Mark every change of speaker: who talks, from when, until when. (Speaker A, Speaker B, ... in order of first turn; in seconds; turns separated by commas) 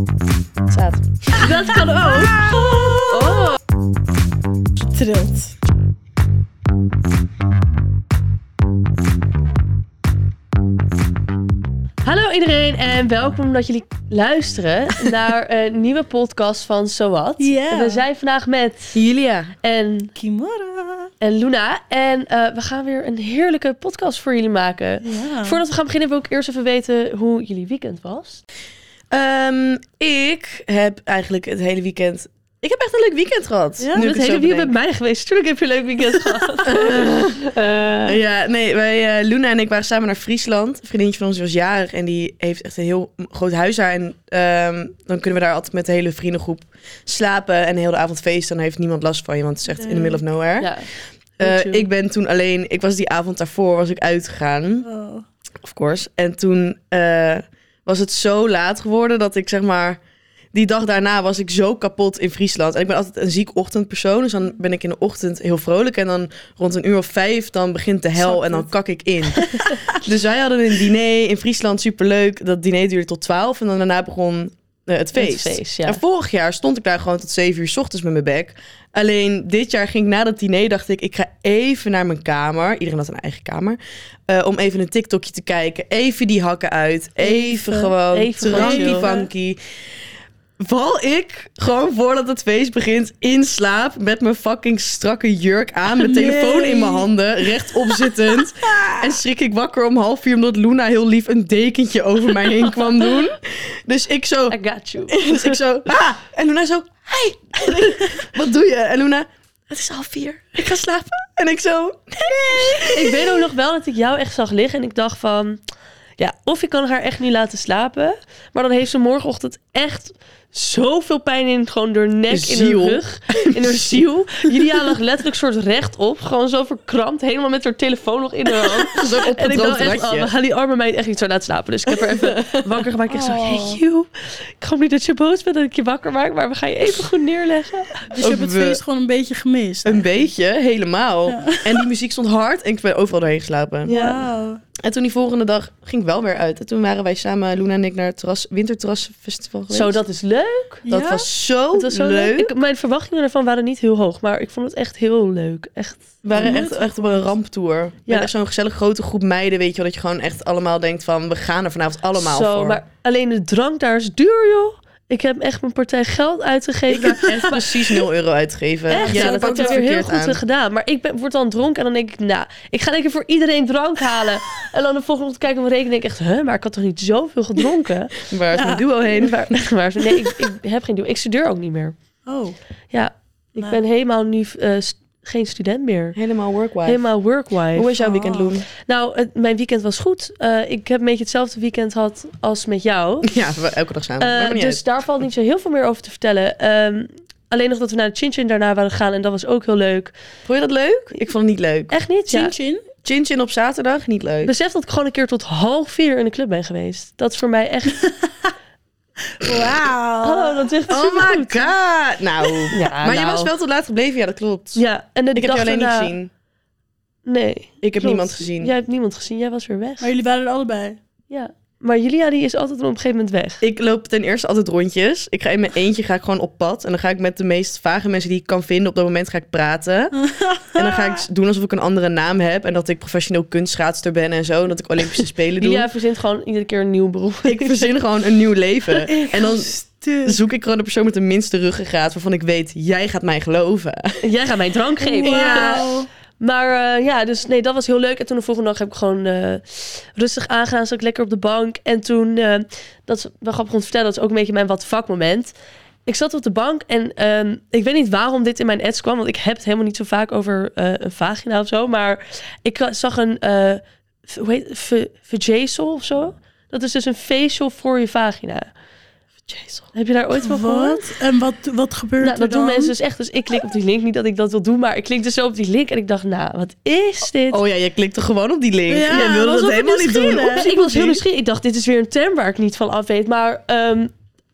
Speaker A: 0.7-1.1, Speaker B: 1.4-2.5, Speaker C: 1.4-3.5, Speaker B: 3.1-3.6, Speaker C: 4.8-5.6, Speaker B: 12.0-19.0, Speaker C: 17.4-18.1, Speaker A: 18.9-19.5, Speaker B: 19.6-20.1, Speaker C: 20.1-21.1, Speaker B: 21.2-28.4, Speaker C: 25.0-25.6, Speaker A: 29.1-34.7, Speaker C: 33.8-34.0, Speaker B: 34.0-37.4, Speaker A: 36.6-50.7, Speaker C: 49.7-50.2, Speaker B: 50.6-50.9, Speaker A: 51.4-54.9, Speaker B: 51.4-51.9, Speaker C: 54.8-55.2, Speaker A: 55.6-60.0, Speaker A: 60.5-89.6, Speaker C: 68.2-68.7, Speaker B: 69.4-69.7, Speaker C: 69.4-70.0, Speaker B: 75.2-76.0, Speaker C: 87.2-88.0, Speaker B: 88.1-89.1, Speaker C: 88.5-89.3, Speaker A: 90.6-104.6, Speaker C: 96.0-97.1, Speaker C: 98.8-99.0, Speaker B: 104.5-105.6, Speaker A: 105.1-113.4, Speaker B: 112.8-115.6, Speaker B: 116.2-138.1, Speaker A: 122.3-124.0, Speaker A: 128.9-130.3, Speaker A: 132.1-132.7, Speaker C: 133.1-133.8, Speaker C: 138.1-140.2, Speaker A: 138.2-138.8, Speaker A: 139.8-143.9, Speaker C: 141.3-141.8, Speaker B: 143.8-144.2, Speaker C: 143.9-144.6, Speaker A: 144.8-150.0, Speaker B: 149.7-150.9, Speaker C: 150.9-151.3, Speaker A: 150.9-152.5, Speaker B: 151.7-156.7, Speaker A: 156.2-162.8, Speaker C: 156.3-157.3, Speaker B: 162.2-167.5, Speaker A: 166.9-170.4, Speaker C: 167.2-168.0, Speaker B: 168.9-182.0, Speaker C: 168.9-169.8, Speaker A: 178.2-179.5, Speaker C: 178.5-178.9, Speaker C: 182.3-182.6, Speaker B: 182.9-186.2, Speaker A: 186.2-187.1, Speaker B: 186.8-188.1, Speaker A: 187.7-188.7, Speaker C: 188.1-188.5, Speaker B: 188.8-193.4, Speaker A: 193.2-194.8, Speaker B: 194.2-200.1, Speaker A: 200.5-201.9, Speaker B: 201.9-202.5, Speaker C: 202.3-202.8, Speaker A: 203.0-204.5, Speaker B: 204.4-208.1, Speaker C: 208.0-208.5, Speaker C: 209.3-210.7, Speaker B: 210.2-211.7, Speaker A: 210.9-214.8, Speaker B: 212.7-213.5, Speaker B: 214.8-216.1, Speaker A: 215.3-216.3, Speaker B: 217.3-220.1, Speaker A: 217.8-218.7, Speaker C: 220.0-221.0, Speaker B: 221.3-223.6, Speaker A: 223.6-230.2, Speaker C: 230.2-231.2, Speaker A: 230.8-235.9, Speaker B: 235.2-237.9, Speaker A: 237.4-244.2, Speaker C: 239.1-240.4, Speaker B: 244.2-255.5, Speaker C: 245.1-246.1, Speaker A: 245.2-245.9, Speaker B: 256.1-268.7, Speaker A: 269.4-269.9, Speaker B: 269.9-271.2, Speaker C: 270.4-272.9, Speaker B: 272.2-277.6, Speaker A: 277.5-281.2, Speaker C: 278.9-280.9, Speaker B: 279.1-279.5, Speaker B: 280.5-284.1